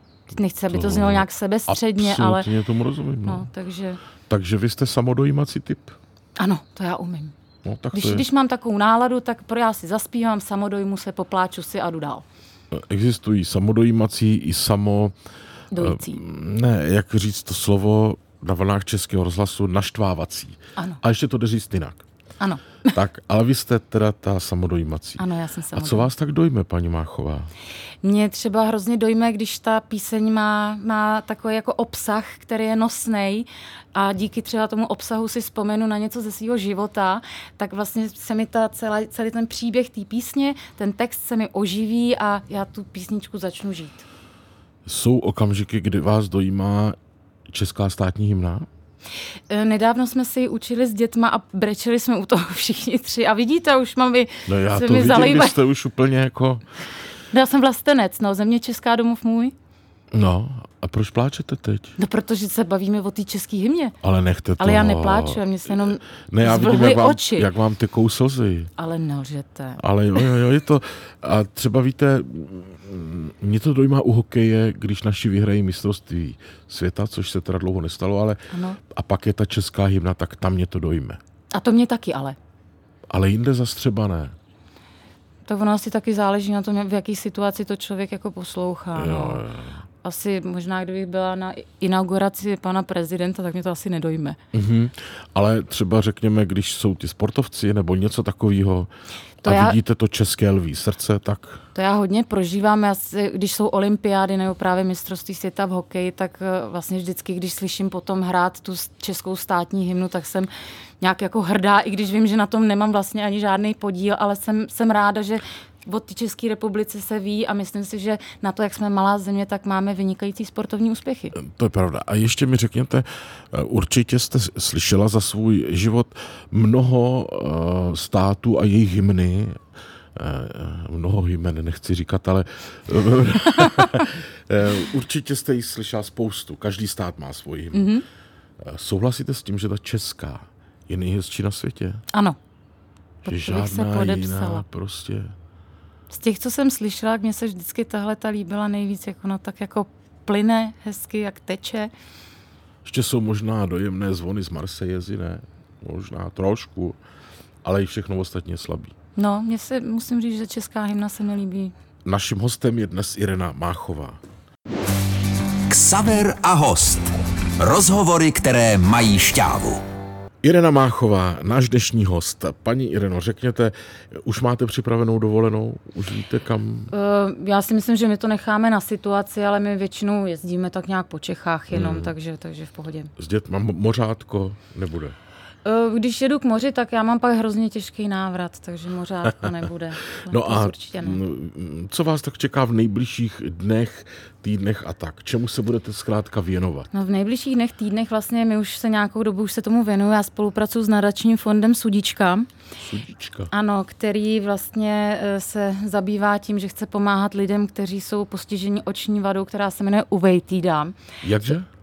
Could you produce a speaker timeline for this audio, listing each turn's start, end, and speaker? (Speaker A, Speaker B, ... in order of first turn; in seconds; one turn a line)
Speaker A: 0.3-2.5
Speaker B: 0.7-3.5
Speaker A: 3.2-4.0
Speaker B: 4.3-6.0
Speaker A: 6.4-7.3
Speaker B: 7.7-8.3
Speaker A: 7.9-12.2
Speaker B: 12.7-15.2
Speaker A: 15.7-16.2
Speaker B: 15.8-22.0
Speaker A: 22.4-23.0
Speaker B: 22.9-27.5
Speaker A: 25.2-26.1
Speaker A: 28.0-44.1
Speaker B: 44.9-47.0
Speaker B: 47.5-48.7
Speaker A: 49.5-55.6
Speaker B: 54.5-56.6
Speaker A: 57.3-59.5
Speaker B: 60.1-62.0
Speaker A: 62.0-64.0
Speaker B: 64.0-65.5
Speaker A: 64.6-67.5
Speaker B: 66.3-68.7
Speaker A: 68.8-69.8
Speaker B: 69.8-81.2
Speaker A: 78.5-78.8
Speaker A: 81.5-82.4
Speaker B: 83.1-84.4
Speaker A: 85.5-89.5
Speaker B: 89.0-89.8
Speaker A: 90.0-94.4
Speaker B: 94.5-98.9
Speaker A: 99.4-99.8
Speaker B: 99.4-101.6
Speaker A: 101.8-110.5
Speaker A: 111.0-121.4
Speaker B: 121.3-129.6
Speaker B: 130.2-137.9
Speaker A: 133.4-134.1
Speaker A: 137.7-138.1
Speaker B: 138.6-142.0
Speaker A: 142.1-142.4
Speaker A: 143.2-144.6
Speaker B: 143.3-145.3
Speaker A: 146.1-151.9
Speaker B: 152.8-157.0
Speaker B: 157.6-158.9
Speaker A: 159.2-161.7
Speaker B: 162.1-164.2
Speaker C: 165.7-167.1
Speaker C: 167.6-169.8
Speaker B: 170.4-176.9
Speaker A: 176.9-183.1
Speaker B: 181.7-182.1
Speaker B: 183.2-185.2
Speaker A: 185.7-191.2
Speaker B: 190.3-196.9
Speaker A: 196.9-202.5
Speaker B: 202.8-203.5
Speaker A: 203.5-211.0
Speaker B: 211.2-211.7